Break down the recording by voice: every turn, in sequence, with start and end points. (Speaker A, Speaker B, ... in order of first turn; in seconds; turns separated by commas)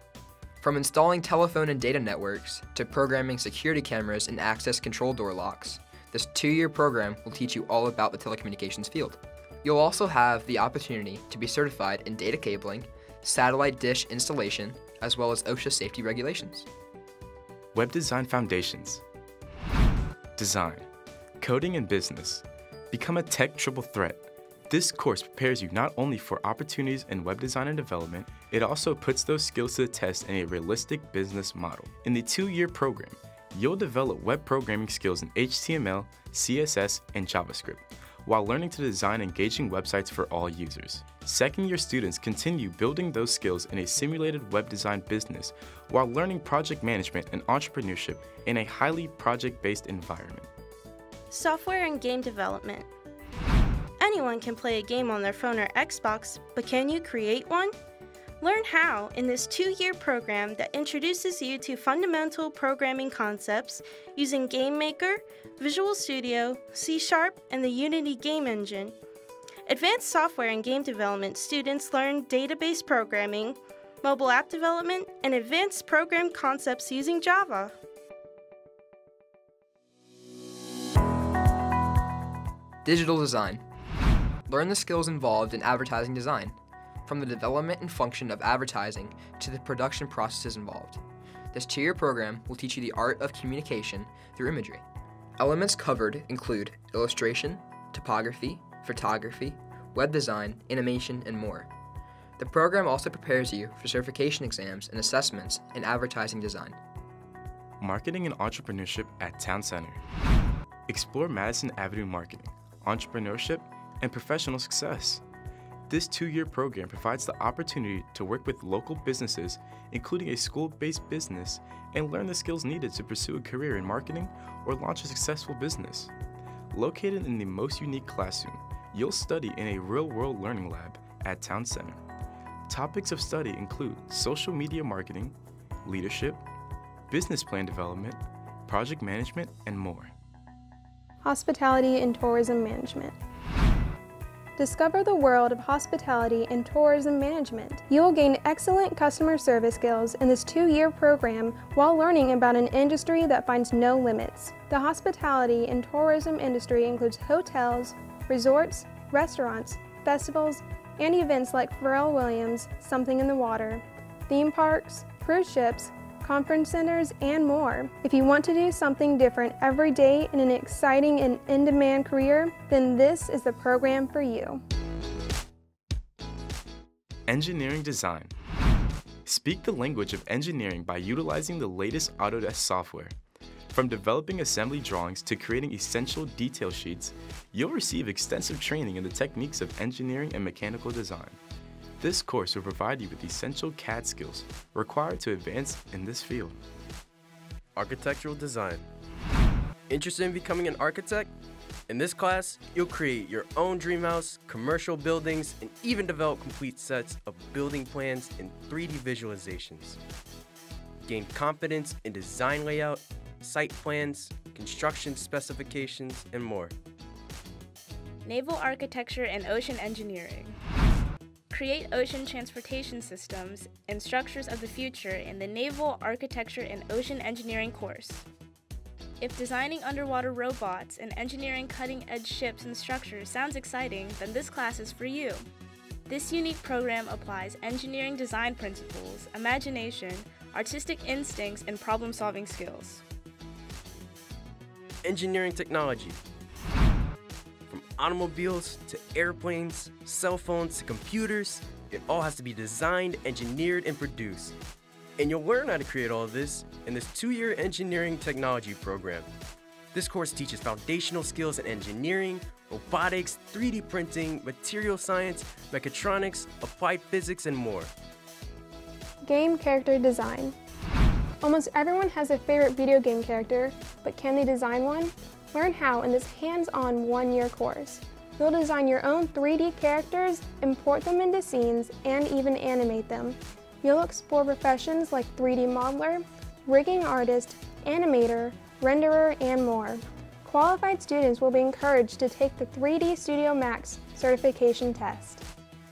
Speaker A: 0.6-16.7, Speaker B: 17.7-19.0, Speaker B: 20.4-20.9, Speaker B: 21.4-50.5, Speaker C: 51.3-52.9, Speaker C: 54.0-57.7, Speaker C: 58.4-69.0, Speaker C: 69.7-77.8, Speaker A: 82.8-83.6, Speaker A: 84.5-91.0, Speaker A: 91.5-94.8, Speaker A: 95.4-101.7, Speaker A: 102.4-106.8, Speaker B: 107.8-110.0, Speaker B: 110.9-115.2, Speaker B: 115.9-126.1, Speaker B: 126.7-132.0, Speaker B: 132.7-136.4, Speaker B: 137.1-140.1, Speaker D: 141.2-143.1, Speaker D: 144.6-174.6, Speaker B: 177.3-178.3, Speaker B: 179.2-183.2, Speaker B: 183.7-191.4, Speaker B: 192.0-196.6, Speaker E: 197.8-198.8, Speaker E: 199.9-201.3, Speaker E: 201.9-210.0, Speaker E: 211.1-216.7, Speaker F: 218.2-220.6, Speaker F: 221.5-228.2, Speaker F: 229.2-235.5, Speaker F: 236.1-243.0, Speaker E: 245.0-246.2, Speaker E: 247.7-254.6, Speaker E: 255.2-259.3, Speaker E: 259.9-267.9, Speaker D: 269.2-270.6, Speaker D: 271.4-295.4